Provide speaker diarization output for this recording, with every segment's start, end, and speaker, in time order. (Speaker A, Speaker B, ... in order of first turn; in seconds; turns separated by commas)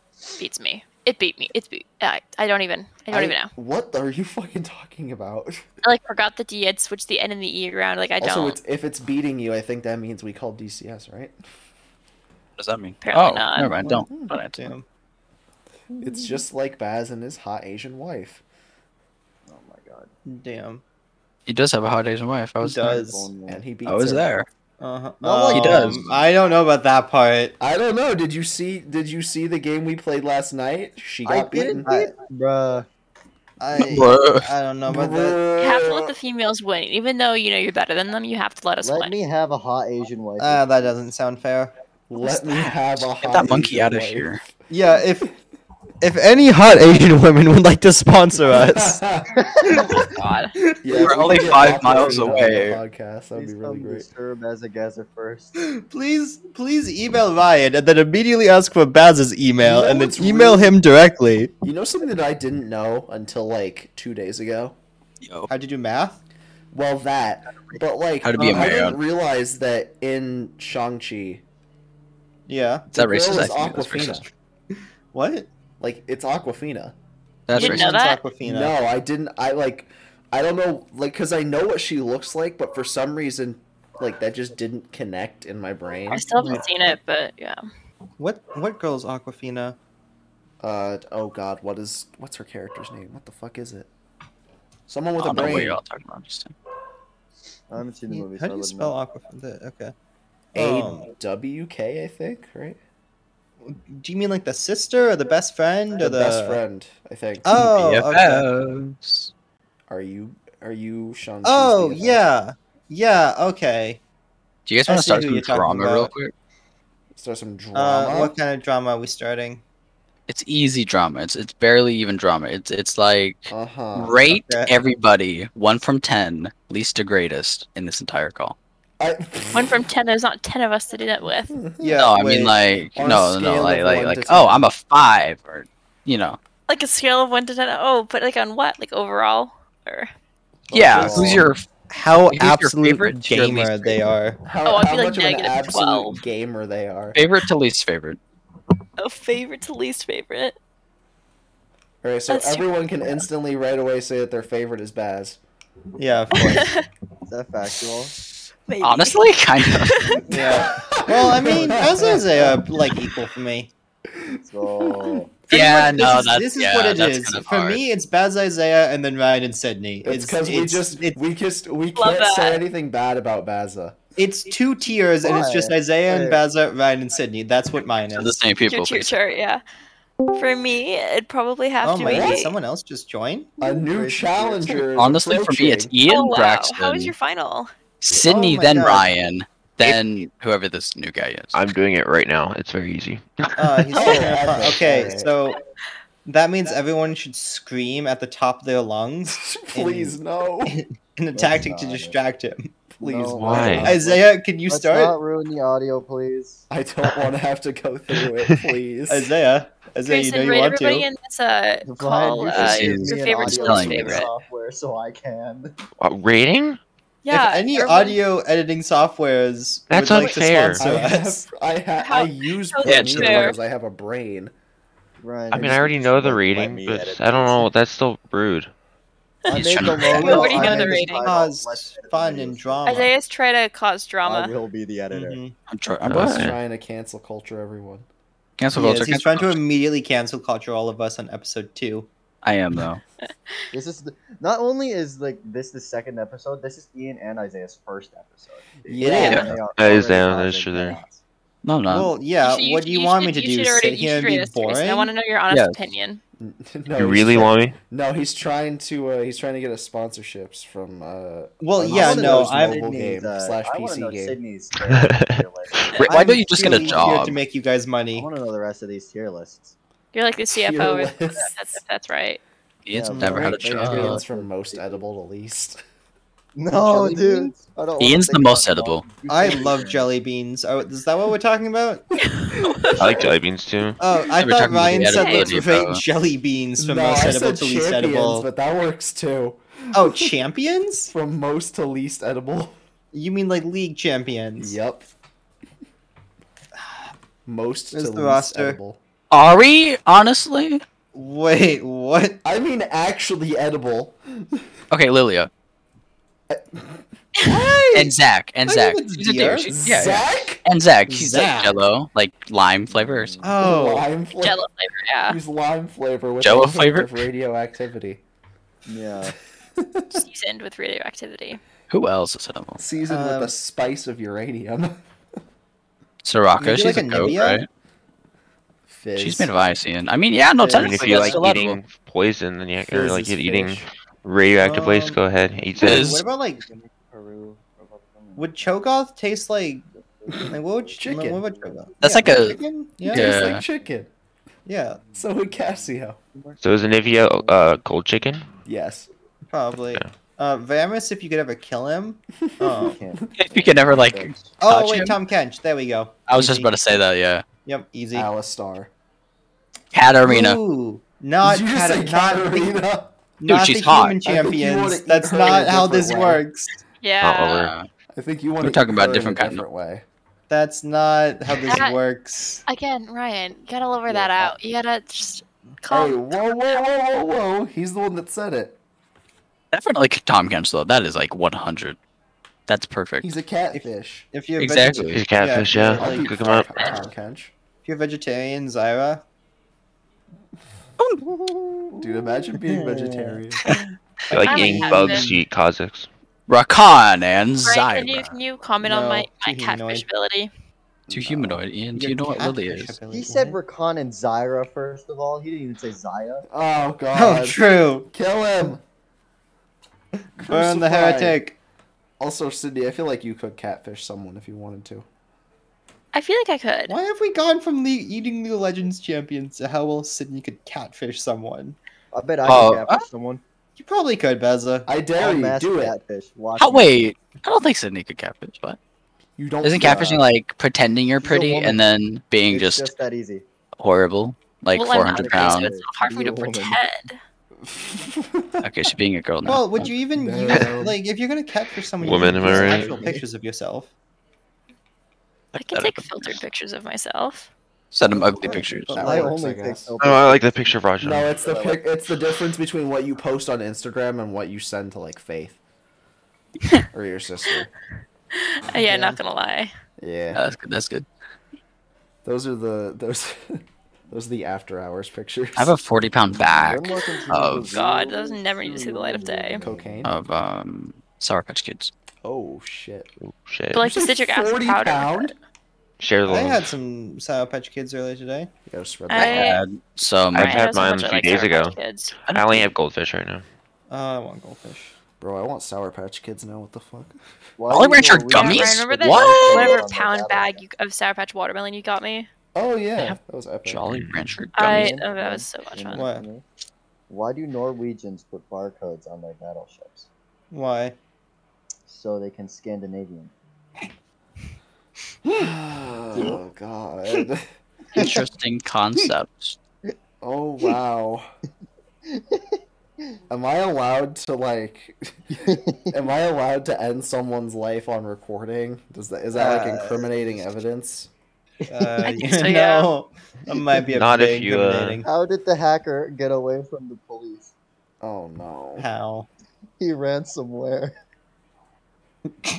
Speaker A: 0.4-3.5, Speaker B: 3.1-5.6, Speaker A: 5.8-8.6, Speaker B: 8.2-11.4, Speaker C: 12.6-14.7, Speaker A: 13.0-13.8, Speaker B: 14.1-14.3, Speaker D: 14.1-14.8, Speaker B: 16.0-18.4, Speaker E: 19.5-20.1, Speaker D: 20.2-20.8, Speaker C: 21.5-23.0, Speaker D: 22.6-23.3, Speaker E: 22.9-23.7, Speaker B: 23.5-24.3, Speaker C: 23.8-24.4, Speaker D: 24.8-27.6, Speaker E: 25.2-26.1, Speaker C: 25.5-26.0, Speaker B: 27.6-32.0, Speaker E: 31.2-32.9, Speaker D: 31.8-32.1, Speaker D: 33.6-35.4, Speaker C: 33.8-34.5, Speaker B: 34.9-36.1, Speaker A: 35.6-39.1, Speaker E: 38.8-40.9, Speaker D: 40.4-41.7, Speaker B: 42.1-44.3, Speaker C: 42.2-44.4, Speaker D: 44.7-45.3, Speaker D: 46.0-49.0, Speaker B: 48.4-49.4, Speaker E: 49.4-49.8, Speaker D: 49.7-50.1, Speaker A: 49.7-50.5, Speaker D: 50.6-51.8, Speaker B: 50.8-54.1, Speaker C: 51.0-52.8, Speaker E: 51.3-52.5, Speaker E: 53.3-55.5, Speaker D: 55.6-61.5, Speaker B: 59.6-60.8, Speaker B: 61.6-64.8, Speaker C: 65.2-65.5, Speaker D: 65.5-66.2, Speaker B: 66.7-71.4, Speaker C: 68.2-69.0, Speaker D: 68.4-68.9, Speaker D: 72.5-72.9, Speaker B: 72.9-74.2, Speaker C: 72.9-74.3, Speaker D: 75.1-75.5, Speaker B: 75.8-76.9, Speaker C: 77.5-77.9, Speaker D: 77.5-78.7, Speaker A: 77.5-78.2, Speaker B: 78.4-86.3, Speaker A: 86.1-87.7, Speaker D: 86.4-86.7, Speaker D: 88.2-89.8, Speaker B: 90.6-93.9, Speaker B: 94.9-95.8, Speaker C: 95.2-96.5, Speaker E: 97.7-99.0, Speaker D: 98.1-99.9, Speaker D: 100.5-101.1, Speaker B: 100.5-102.8, Speaker D: 103.6-106.6, Speaker B: 106.0-107.5, Speaker D: 107.5-108.5, Speaker C: 107.5-109.3, Speaker B: 109.9-112.3, Speaker D: 111.4-114.0, Speaker C: 114.7-116.3, Speaker D: 114.9-116.1, Speaker B: 117.1-118.4, Speaker D: 117.7-119.6, Speaker C: 120.3-128.6, Speaker B: 123.5-124.2, Speaker D: 124.3-124.7, Speaker B: 129.0-129.8, Speaker A: 129.5-131.5, Speaker B: 131.5-132.1, Speaker D: 131.8-132.6, Speaker C: 131.9-136.4, Speaker B: 132.9-134.7, Speaker A: 136.7-140.1, Speaker B: 140.7-141.5, Speaker C: 140.7-141.7, Speaker D: 141.9-144.4, Speaker C: 142.2-144.0, Speaker B: 144.4-147.2, Speaker A: 144.6-146.2, Speaker C: 147.1-148.2, Speaker A: 149.0-150.6, Speaker B: 152.0-155.4, Speaker A: 152.3-152.7, Speaker D: 156.0-156.8, Speaker A: 156.5-156.8, Speaker E: 157.3-158.1, Speaker A: 158.7-160.2, Speaker C: 158.8-160.2, Speaker B: 160.2-162.6, Speaker D: 160.3-163.7, Speaker E: 161.5-162.5, Speaker E: 164.3-165.4, Speaker B: 164.8-165.2, Speaker C: 165.5-167.8, Speaker D: 165.5-171.2, Speaker B: 170.0-174.0, Speaker A: 171.9-172.6, Speaker D: 174.2-178.3, Speaker E: 175.2-176.4, Speaker C: 178.1-179.1, Speaker A: 178.7-179.6, Speaker A: 180.3-182.5, Speaker D: 181.8-184.2, Speaker B: 182.0-182.4, Speaker B: 183.6-185.9, Speaker E: 183.6-184.8, Speaker C: 184.9-187.1, Speaker A: 186.0-187.7, Speaker C: 188.0-191.5, Speaker D: 188.1-189.1, Speaker F: 191.5-193.8, Speaker D: 193.6-195.6, Speaker B: 193.9-195.3, Speaker E: 194.0-195.2, Speaker D: 196.2-202.8, Speaker B: 199.3-200.8, Speaker E: 201.3-202.2, Speaker E: 203.0-206.6, Speaker B: 203.0-204.0, Speaker F: 203.4-203.9, Speaker D: 203.8-205.1, Speaker B: 206.7-209.3, Speaker D: 209.1-211.1, Speaker A: 210.0-214.3, Speaker E: 211.8-215.7, Speaker C: 212.5-214.2, Speaker F: 216.0-216.8, Speaker A: 217.2-218.2, Speaker D: 217.3-221.4, Speaker F: 219.9-220.8, Speaker B: 220.8-224.5, Speaker A: 222.0-223.6, Speaker C: 222.8-223.5, Speaker E: 225.2-227.7, Speaker F: 225.5-228.7, Speaker A: 229.5-231.3, Speaker E: 229.5-233.1, Speaker C: 229.5-230.5, Speaker D: 230.0-233.1, Speaker A: 232.8-234.5, Speaker E: 234.2-235.4, Speaker D: 235.1-235.5, Speaker C: 235.7-236.5, Speaker F: 236.1-236.6, Speaker B: 236.1-238.1, Speaker C: 238.6-239.6, Speaker D: 238.7-242.1, Speaker C: 242.4-243.0, Speaker A: 243.2-243.7, Speaker E: 243.7-251.2, Speaker B: 248.8-249.6, Speaker C: 249.2-249.5, Speaker F: 249.4-251.0, Speaker C: 251.6-252.1, Speaker D: 251.9-255.1, Speaker A: 252.4-256.2, Speaker C: 255.5-255.8, Speaker B: 256.4-264.4, Speaker F: 256.9-257.8, Speaker D: 261.6-262.9, Speaker E: 261.8-267.3, Speaker F: 264.8-266.0, Speaker C: 266.0-267.4, Speaker D: 266.0-268.3, Speaker E: 268.1-269.7, Speaker A: 270.1-272.4, Speaker B: 270.5-271.5, Speaker C: 272.9-274.2, Speaker E: 272.9-275.0, Speaker B: 273.2-275.8, Speaker E: 276.6-280.1, Speaker D: 276.7-277.5, Speaker C: 278.0-279.1, Speaker D: 279.3-282.1, Speaker A: 282.3-282.9, Speaker F: 282.9-284.0, Speaker D: 284.0-288.5, Speaker C: 284.4-286.0, Speaker A: 284.9-285.6, Speaker B: 286.8-290.3, Speaker D: 289.9-291.1, Speaker B: 291.1-292.8, Speaker D: 293.1-294.8, Speaker B: 294.6-295.1, Speaker B: 297.4-299.0, Speaker D: 297.9-298.8, Speaker C: 299.3-300.8, Speaker D: 301.1-302.4, Speaker B: 302.4-304.7, Speaker C: 304.9-305.5, Speaker B: 306.5-307.0, Speaker D: 307.4-310.1, Speaker C: 307.9-313.4, Speaker B: 309.7-310.6, Speaker D: 311.1-311.8, Speaker E: 312.9-313.6, Speaker D: 313.4-314.1, Speaker B: 313.6-314.6, Speaker A: 314.4-315.4, Speaker B: 315.3-318.2, Speaker C: 316.4-317.2, Speaker E: 318.9-319.4, Speaker B: 319.8-320.2, Speaker A: 320.1-321.6, Speaker C: 321.9-322.8, Speaker B: 322.8-325.0, Speaker D: 323.1-323.5, Speaker C: 326.2-327.7, Speaker D: 326.6-327.6, Speaker B: 328.9-329.5, Speaker C: 329.2-331.8, Speaker D: 330.6-331.5, Speaker F: 330.8-336.1, Speaker D: 332.9-333.8, Speaker D: 334.6-335.2, Speaker D: 335.8-336.6, Speaker C: 335.8-336.2, Speaker E: 335.9-338.7, Speaker D: 338.4-339.9, Speaker E: 340.2-341.7, Speaker D: 340.5-343.4, Speaker B: 341.0-341.4, Speaker C: 342.0-342.6, Speaker B: 343.1-344.1, Speaker C: 343.1-343.6, Speaker D: 344.6-345.0, Speaker E: 345.0-346.6, Speaker B: 345.1-346.2, Speaker F: 346.6-348.4, Speaker E: 347.1-347.8, Speaker B: 348.6-349.1, Speaker D: 349.5-353.0, Speaker B: 352.5-353.0, Speaker E: 352.8-354.5, Speaker C: 353.3-355.2, Speaker D: 354.6-356.7, Speaker C: 356.3-357.4, Speaker D: 357.6-358.3, Speaker B: 358.1-358.9, Speaker C: 359.9-360.6, Speaker D: 360.2-362.8, Speaker B: 361.4-363.2, Speaker D: 363.4-366.8, Speaker C: 363.4-364.2, Speaker B: 364.2-366.4, Speaker A: 367.0-367.7, Speaker F: 367.2-367.7, Speaker C: 367.4-367.9, Speaker B: 368.1-370.0, Speaker C: 368.6-369.6, Speaker D: 370.5-372.6, Speaker A: 371.7-372.0, Speaker A: 372.7-376.7, Speaker B: 374.1-374.5, Speaker B: 375.9-378.8, Speaker C: 379.7-382.0, Speaker C: 382.7-383.3, Speaker B: 383.2-384.3, Speaker D: 383.7-386.9, Speaker C: 384.6-385.2, Speaker F: 385.1-387.0, Speaker B: 385.7-387.5, Speaker D: 387.8-389.2, Speaker B: 392.0-393.7, Speaker D: 392.6-393.8, Speaker F: 394.3-396.1, Speaker A: 394.4-395.3, Speaker C: 394.5-395.2, Speaker D: 394.5-395.2, Speaker C: 396.5-398.3, Speaker A: 397.6-400.5, Speaker D: 398.8-400.0, Speaker B: 401.1-401.6, Speaker C: 401.1-402.9, Speaker D: 401.9-403.6, Speaker E: 403.1-406.4, Speaker B: 406.5-408.8, Speaker D: 407.1-408.1, Speaker B: 410.3-411.4, Speaker D: 410.5-411.6, Speaker B: 412.2-415.1, Speaker A: 416.1-416.9, Speaker D: 416.9-421.8, Speaker E: 422.1-423.4, Speaker C: 422.4-423.0, Speaker D: 423.8-424.9, Speaker B: 424.9-426.0, Speaker E: 425.2-427.0, Speaker C: 426.6-428.8, Speaker B: 429.4-430.3, Speaker C: 429.6-432.9, Speaker E: 431.2-431.9, Speaker E: 432.5-433.4, Speaker C: 433.8-435.7, Speaker A: 434.7-437.2, Speaker E: 434.9-436.8, Speaker B: 437.7-438.7, Speaker C: 438.6-439.9, Speaker D: 439.4-443.9, Speaker B: 440.1-441.0, Speaker E: 440.3-440.9, Speaker F: 442.0-443.1, Speaker E: 442.0-443.2, Speaker B: 442.3-443.2, Speaker A: 445.5-447.5, Speaker C: 445.7-446.4, Speaker C: 447.9-449.0, Speaker B: 448.1-449.9, Speaker D: 448.4-449.4, Speaker E: 448.4-450.8, Speaker F: 450.0-451.4, Speaker B: 451.0-455.6, Speaker E: 451.4-451.8, Speaker B: 456.9-457.7, Speaker A: 458.3-459.7, Speaker D: 458.9-459.2, Speaker B: 460.0-460.4, Speaker C: 460.3-461.1, Speaker B: 462.2-465.7, Speaker C: 465.6-467.7, Speaker E: 466.5-470.0, Speaker A: 466.9-469.6, Speaker B: 469.6-470.1, Speaker C: 470.0-471.9, Speaker B: 472.2-473.1, Speaker F: 473.2-473.8, Speaker A: 473.7-475.4, Speaker B: 473.8-475.3, Speaker F: 476.0-476.7, Speaker D: 476.3-478.5, Speaker B: 478.7-479.6, Speaker A: 479.1-479.6, Speaker C: 479.1-480.8, Speaker F: 480.3-481.8, Speaker A: 480.3-482.1, Speaker C: 482.3-482.7, Speaker F: 482.3-483.4, Speaker D: 483.9-484.9, Speaker B: 485.2-487.2, Speaker E: 487.6-490.6, Speaker C: 487.7-489.8, Speaker A: 488.3-492.3, Speaker B: 492.5-493.9, Speaker C: 493.0-495.0, Speaker F: 493.8-494.7, Speaker A: 494.5-496.1, Speaker E: 494.7-496.4, Speaker D: 495.9-496.2, Speaker E: 497.1-500.1, Speaker D: 500.5-500.9, Speaker E: 501.9-503.3, Speaker B: 505.2-507.5, Speaker C: 507.9-509.6, Speaker B: 510.2-511.3, Speaker E: 512.1-512.4, Speaker B: 513.3-515.3, Speaker E: 515.4-515.9, Speaker B: 515.9-521.1, Speaker D: 519.3-520.1, Speaker D: 521.6-525.1, Speaker E: 521.7-522.1, Speaker A: 522.0-522.9, Speaker F: 523.9-525.0, Speaker E: 525.0-527.5, Speaker B: 528.0-528.9, Speaker D: 528.8-529.3, Speaker E: 529.8-530.9